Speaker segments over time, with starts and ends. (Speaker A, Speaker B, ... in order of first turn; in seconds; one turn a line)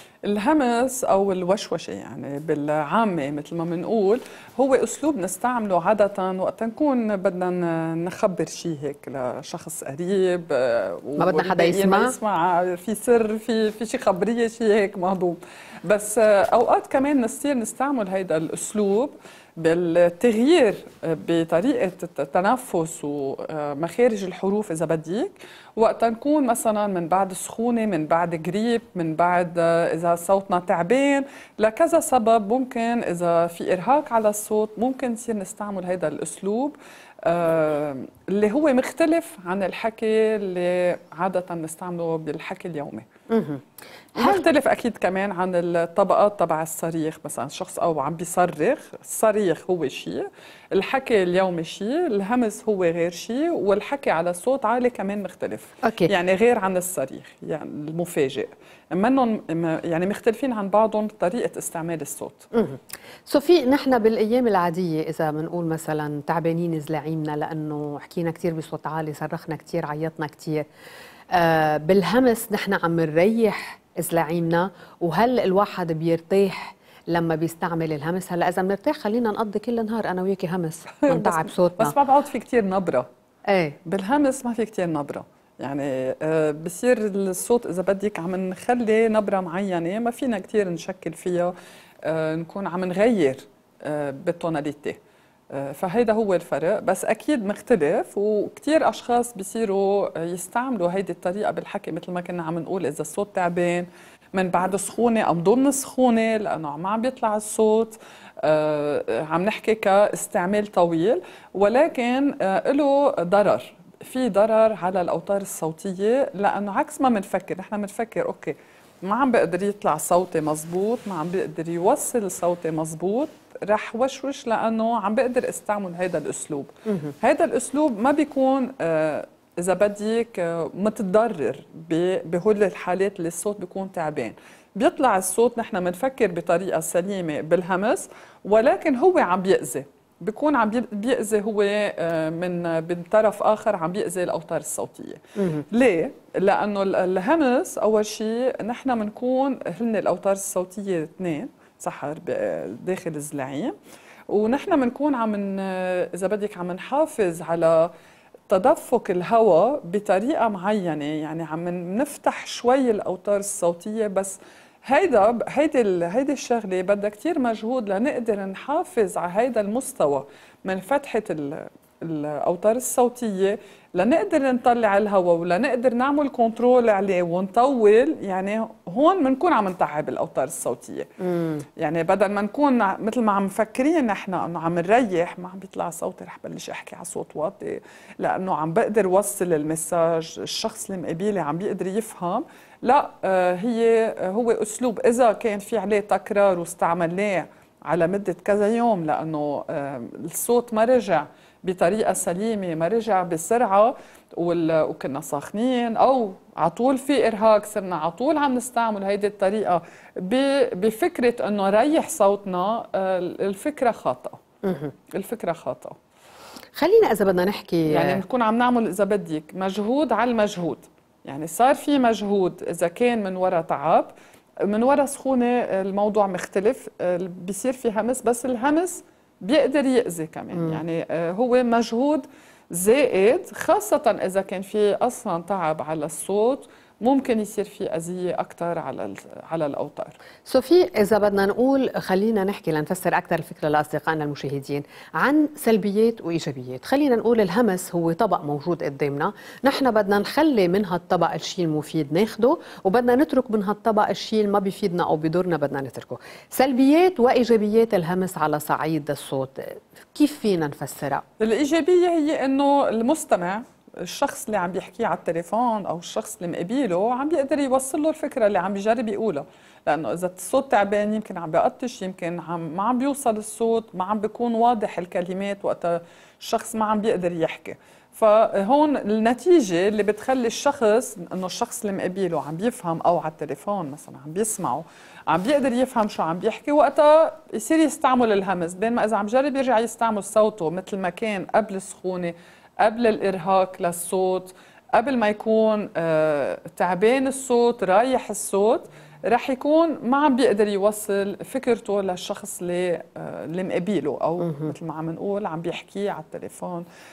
Speaker A: 0.2-43.0
Speaker B: 11.2-12.2
Speaker B: 43.3-43.6
Speaker A: 44.1-62.5
Speaker B: 44.2-44.5
Speaker B: 55.8-56.1
Speaker B: 62.5-70.7
Speaker B: 71.3-82.0
Speaker A: 81.0-83.1
Speaker B: 83.5-83.8
Speaker A: 83.8-95.0
Speaker A: 95.5-153.7
Speaker B: 126.9-127.1
Speaker B: 145.4-145.6
Speaker A: 154.3-157.9
Speaker A: 158.5-181.1
Speaker B: 181.2-181.6
Speaker A: 181.8-214.4
Speaker B: 214.6-214.9
Speaker A: 215.1-216.0
Speaker B: 216.8-218.2
Speaker A: 217.9-224.1
Speaker A: 224.6-240.2
Speaker B: 230.5-230.8
Speaker B: 240.4-261.2
Speaker A: 261.4-306.9
Speaker B: 304.4-304.7